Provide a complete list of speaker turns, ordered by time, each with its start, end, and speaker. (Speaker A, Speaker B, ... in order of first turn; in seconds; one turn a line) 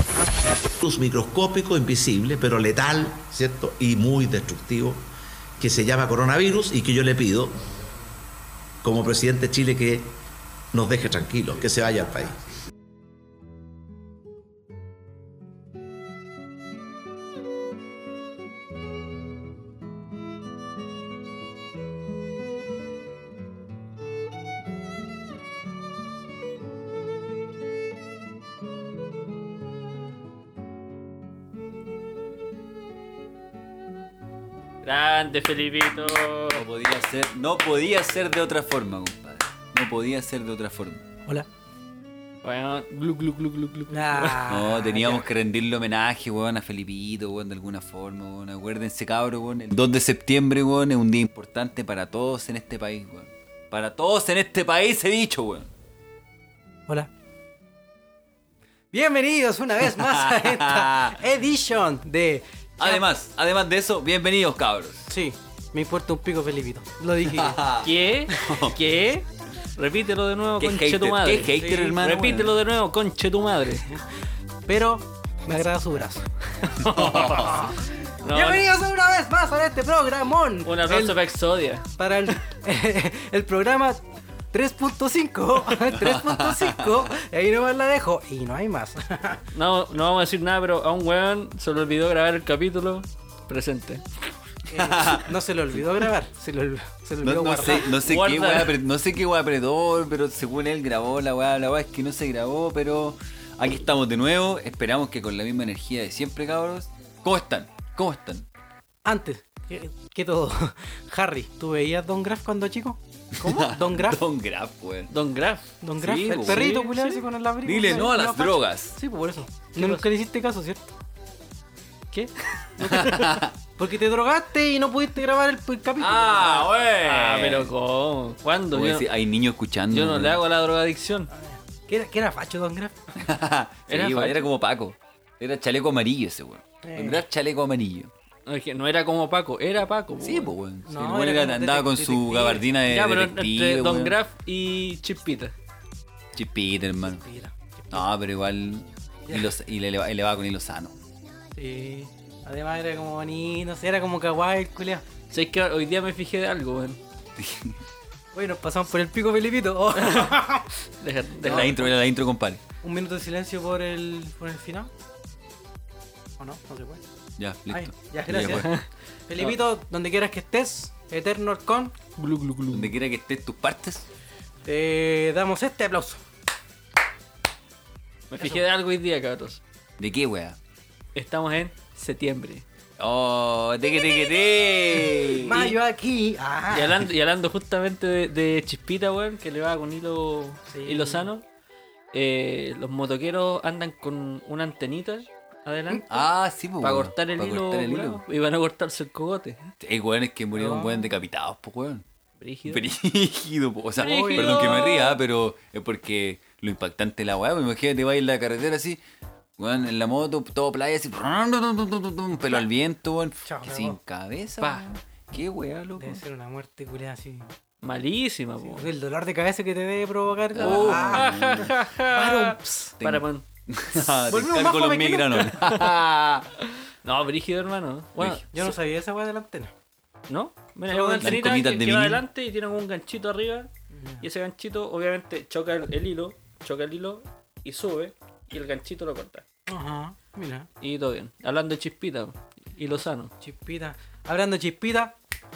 Speaker A: 0.7-7.7
Speaker A: 8.8-10.2
Speaker A: 10.7-12.5
Speaker B: 34.8-36.6
Speaker C: 36.5-41.0
Speaker B: 42.4-44.5
Speaker D: 43.9-45.3
Speaker C: 44.5-55.7
Speaker D: 58.9-63.0
Speaker C: 59.9-61.2
Speaker C: 62.8-65.1
Speaker D: 65.1-67.7
Speaker C: 67.3-68.8
Speaker B: 67.8-73.8
Speaker C: 70.6-72.5
Speaker D: 71.5-72.0
Speaker D: 74.7-81.2
Speaker C: 76.8-77.7
Speaker B: 76.8-78.7
Speaker B: 80.7-81.8
Speaker D: 82.0-84.0
Speaker D: 84.5-89.4
Speaker C: 86.0-86.8
Speaker B: 89.5-94.0
Speaker D: 94.7-97.9
Speaker C: 94.7-95.3
Speaker C: 97.2-108.5
Speaker B: 97.8-98.8
Speaker D: 109.0-114.2
Speaker C: 113.4-115.1
Speaker B: 115.1-115.7
Speaker D: 115.8-120.9
Speaker C: 116.0-116.8
Speaker B: 116.4-117.2
Speaker C: 117.6-119.0
Speaker B: 119.8-120.0
Speaker B: 122.1-122.7
Speaker D: 122.8-126.7
Speaker C: 122.8-123.5
Speaker C: 126.0-127.7
Speaker B: 127.0-129.1
Speaker C: 128.7-130.4
Speaker B: 129.9-131.3
Speaker D: 131.3-133.2
Speaker C: 133.2-138.1
Speaker B: 133.9-134.5
Speaker D: 136.8-137.2
Speaker B: 138.5-140.5
Speaker C: 140.2-144.2
Speaker D: 140.9-142.6
Speaker B: 142.9-145.5
Speaker C: 146.3-147.2
Speaker D: 147.2-148.1
Speaker C: 147.9-150.9
Speaker D: 151.6-155.0
Speaker B: 155.3-157.0
Speaker C: 157.4-157.8
Speaker D: 158.3-160.7
Speaker B: 160.0-160.3
Speaker B: 161.0-161.8
Speaker D: 161.4-161.9
Speaker C: 161.5-162.6
Speaker D: 162.8-164.9
Speaker D: 166.4-167.0
Speaker C: 167.4-168.7
Speaker D: 167.7-168.8
Speaker B: 168.4-168.9
Speaker D: 169.3-171.9
Speaker B: 172.2-172.9
Speaker C: 172.7-174.1
Speaker D: 174.7-176.2
Speaker B: 178.3-179.6
Speaker C: 180.0-180.6
Speaker B: 181.2-182.6
Speaker C: 183.0-185.8
Speaker D: 185.1-187.0
Speaker B: 186.7-191.4
Speaker D: 190.7-191.3
Speaker B: 192.1-196.1
Speaker C: 196.1-198.2
Speaker B: 196.8-199.7
Speaker C: 199.8-202.1
Speaker D: 200.6-201.1
Speaker B: 202.4-202.9
Speaker C: 202.7-209.0
Speaker D: 204.0-205.1
Speaker B: 204.0-205.2
Speaker C: 209.6-216.2
Speaker D: 213.4-214.0
Speaker B: 214.6-214.9
Speaker D: 216.0-217.5
Speaker B: 217.8-218.9
Speaker D: 218.6-223.0
Speaker C: 220.5-221.7
Speaker B: 220.6-223.4
Speaker C: 223.0-226.6
Speaker D: 224.1-225.7
Speaker B: 227.0-228.5
Speaker C: 228.2-228.7
Speaker D: 228.5-229.7
Speaker B: 230.3-233.7
Speaker D: 230.9-231.6
Speaker C: 231.2-232.2
Speaker D: 233.9-234.3
Speaker B: 234.2-239.4
Speaker D: 239.7-240.7
Speaker B: 240.8-243.3
Speaker D: 243.4-245.2